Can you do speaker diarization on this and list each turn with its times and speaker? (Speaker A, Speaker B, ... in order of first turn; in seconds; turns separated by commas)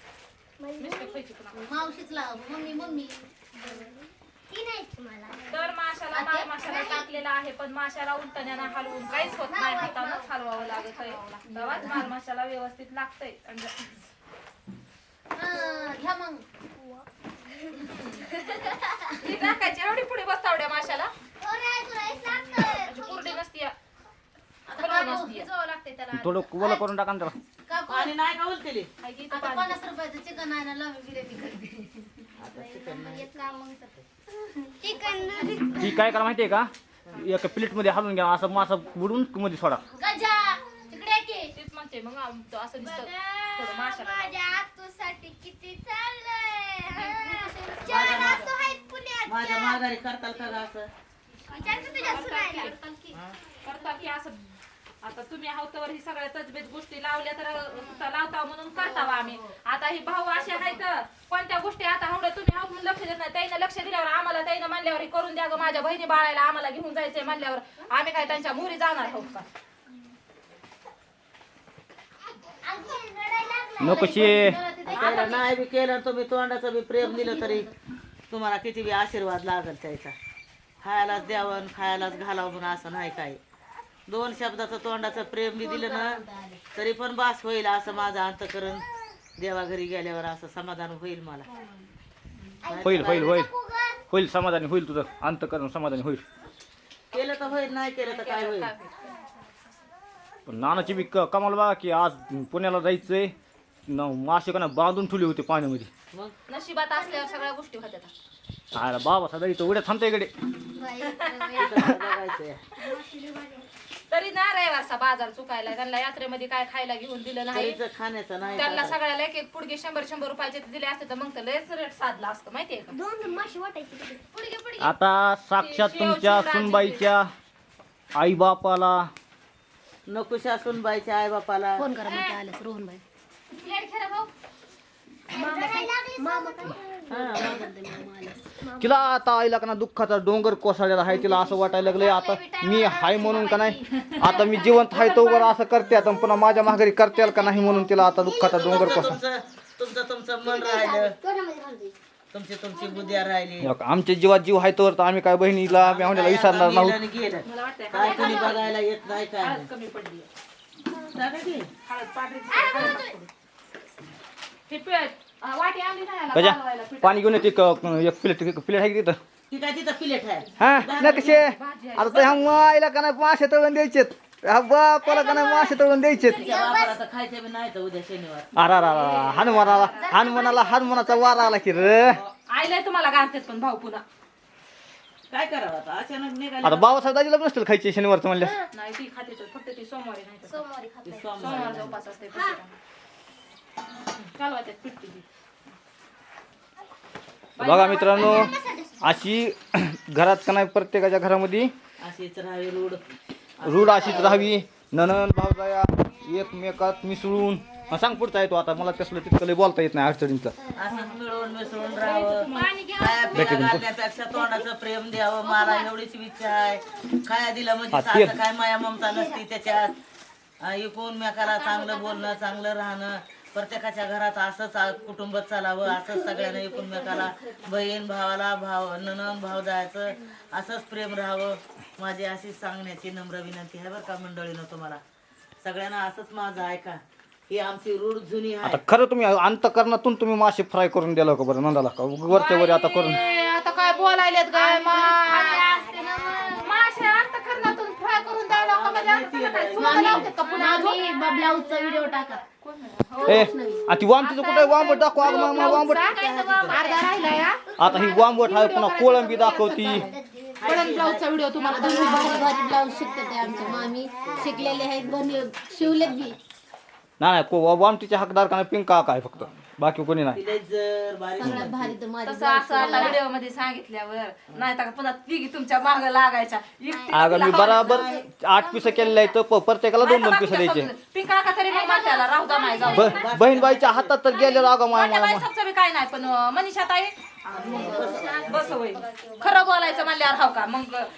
Speaker A: 0.6-1.2, Speaker B: 0.8-1.7, Speaker C: 1.6-3.9, Speaker A: 1.9-5.7, Speaker B: 5.5-14.0, Speaker C: 6.1-6.7, Speaker A: 6.5-7.1, Speaker A: 8.7-11.2, Speaker C: 11.5-12.0, Speaker C: 15.3-16.4, Speaker A: 15.5-16.0, Speaker A: 17.6-19.1, Speaker B: 17.8-18.5, Speaker B: 19.1-21.1, Speaker A: 21.4-23.4, Speaker B: 22.6-23.7, Speaker C: 24.7-25.5, Speaker B: 24.7-25.5, Speaker A: 25.5-26.8, Speaker D: 26.1-27.3, Speaker C: 27.7-28.1, Speaker E: 27.8-28.9, Speaker B: 29.0-29.8, Speaker C: 29.3-32.2, Speaker E: 32.4-33.3, Speaker A: 32.5-34.0, Speaker A: 34.7-36.2, Speaker C: 34.9-35.5, Speaker D: 35.8-39.8, Speaker A: 40.0-41.5, Speaker C: 40.0-41.5, Speaker B: 41.5-44.4, Speaker A: 42.8-49.8, Speaker B: 47.0-48.5, Speaker E: 47.9-48.5, Speaker E: 49.2-50.9, Speaker A: 51.5-53.2, Speaker C: 51.6-52.3, Speaker B: 51.9-52.8, Speaker E: 53.1-53.4, Speaker B: 53.6-69.5, Speaker A: 53.8-54.0, Speaker C: 59.0-59.5, Speaker C: 60.5-60.8, Speaker A: 68.4-69.1, Speaker A: 72.6-74.5, Speaker D: 73.8-74.6, Speaker C: 73.8-75.3, Speaker B: 74.9-75.5, Speaker E: 74.9-77.7, Speaker C: 77.0-77.7, Speaker E: 78.3-80.1, Speaker E: 80.8-83.4, Speaker E: 84.1-86.2, Speaker C: 85.6-86.6, Speaker E: 86.7-88.8, Speaker E: 89.4-91.5, Speaker C: 91.5-91.9, Speaker A: 92.6-94.0, Speaker E: 92.7-93.4, Speaker D: 92.8-93.5, Speaker D: 94.1-96.2, Speaker E: 97.1-98.7, Speaker B: 98.0-99.1, Speaker D: 100.5-103.3, Speaker D: 103.9-105.9, Speaker B: 106.5-108.1, Speaker A: 106.9-107.5, Speaker D: 108.7-110.3, Speaker A: 110.8-112.2, Speaker B: 111.0-111.6, Speaker E: 111.5-112.6, Speaker A: 112.8-113.7, Speaker B: 114.1-117.8, Speaker E: 117.5-119.0, Speaker B: 118.5-123.0, Speaker A: 122.9-124.2, Speaker B: 124.3-124.9, Speaker D: 124.8-127.2, Speaker B: 125.6-127.1, Speaker D: 128.2-129.1, Speaker E: 130.1-131.8, Speaker C: 131.8-133.0, Speaker B: 132.0-132.3, Speaker B: 133.5-134.3, Speaker A: 135.3-137.4, Speaker C: 135.3-138.4, Speaker E: 137.1-137.7, Speaker A: 138.5-139.0, Speaker D: 138.8-149.2, Speaker A: 141.1-149.1, Speaker E: 148.6-151.1, Speaker A: 150.4-151.9, Speaker E: 152.3-153.7, Speaker A: 152.7-153.3, Speaker D: 153.6-157.0, Speaker E: 155.6-159.7, Speaker B: 157.4-158.7, Speaker A: 158.1-158.6, Speaker B: 159.4-160.3, Speaker E: 161.1-161.7, Speaker B: 161.9-163.3, Speaker A: 162.5-163.1, Speaker B: 164.7-167.3, Speaker D: 166.3-169.2, Speaker E: 169.5-171.5, Speaker D: 170.6-176.5, Speaker B: 170.8-172.5, Speaker A: 175.0-177.0, Speaker B: 176.2-176.7, Speaker E: 176.4-178.5, Speaker D: 178.6-182.2, Speaker B: 178.7-180.2, Speaker E: 179.3-179.9, Speaker A: 179.7-182.0, Speaker B: 182.5-184.0, Speaker E: 185.3-187.0, Speaker D: 186.6-188.5, Speaker A: 188.4-188.7, Speaker B: 188.7-190.6, Speaker A: 190.4-191.5, Speaker E: 191.0-191.9, Speaker B: 191.4-192.7, Speaker A: 192.3-192.6, Speaker B: 194.1-195.2, Speaker B: 197.6-198.5, Speaker D: 197.6-201.7, Speaker A: 198.1-199.2, Speaker E: 202.0-203.0, Speaker E: 203.6-204.5, Speaker D: 203.6-210.5, Speaker A: 210.6-211.1, Speaker E: 210.7-219.9, Speaker A: 211.6-213.5, Speaker B: 212.0-213.0, Speaker D: 213.3-213.8, Speaker A: 214.3-214.6, Speaker A: 215.4-215.9, Speaker D: 217.9-218.3, Speaker A: 219.0-219.4, Speaker E: 220.6-235.0, Speaker A: 221.4-222.6, Speaker C: 225.8-228.0, Speaker E: 235.6-238.8, Speaker D: 238.6-243.2, Speaker B: 242.3-251.5, Speaker A: 243.2-248.6, Speaker C: 245.2-246.5, Speaker E: 248.5-250.4, Speaker C: 249.8-252.4, Speaker A: 250.2-252.4, Speaker B: 252.6-253.5, Speaker C: 253.2-253.8, Speaker D: 253.2-256.0, Speaker B: 254.2-256.2, Speaker A: 255.1-264.9, Speaker E: 256.0-256.8, Speaker B: 256.7-257.6, Speaker D: 257.8-260.1, Speaker B: 258.4-260.1, Speaker E: 260.6-261.2, Speaker B: 260.6-262.5, Speaker C: 261.6-266.4, Speaker E: 263.4-266.3, Speaker D: 267.2-270.4, Speaker E: 270.3-272.0, Speaker C: 271.4-273.2, Speaker B: 272.2-278.1, Speaker A: 272.8-273.2, Speaker A: 276.9-279.3, Speaker D: 277.1-280.9, Speaker E: 277.6-278.2, Speaker B: 280.0-283.2, Speaker A: 281.7-283.3, Speaker D: 282.9-285.5, Speaker E: 282.9-284.1, Speaker B: 284.3-291.1, Speaker E: 287.5-288.8, Speaker C: 287.6-290.0, Speaker A: 287.8-288.5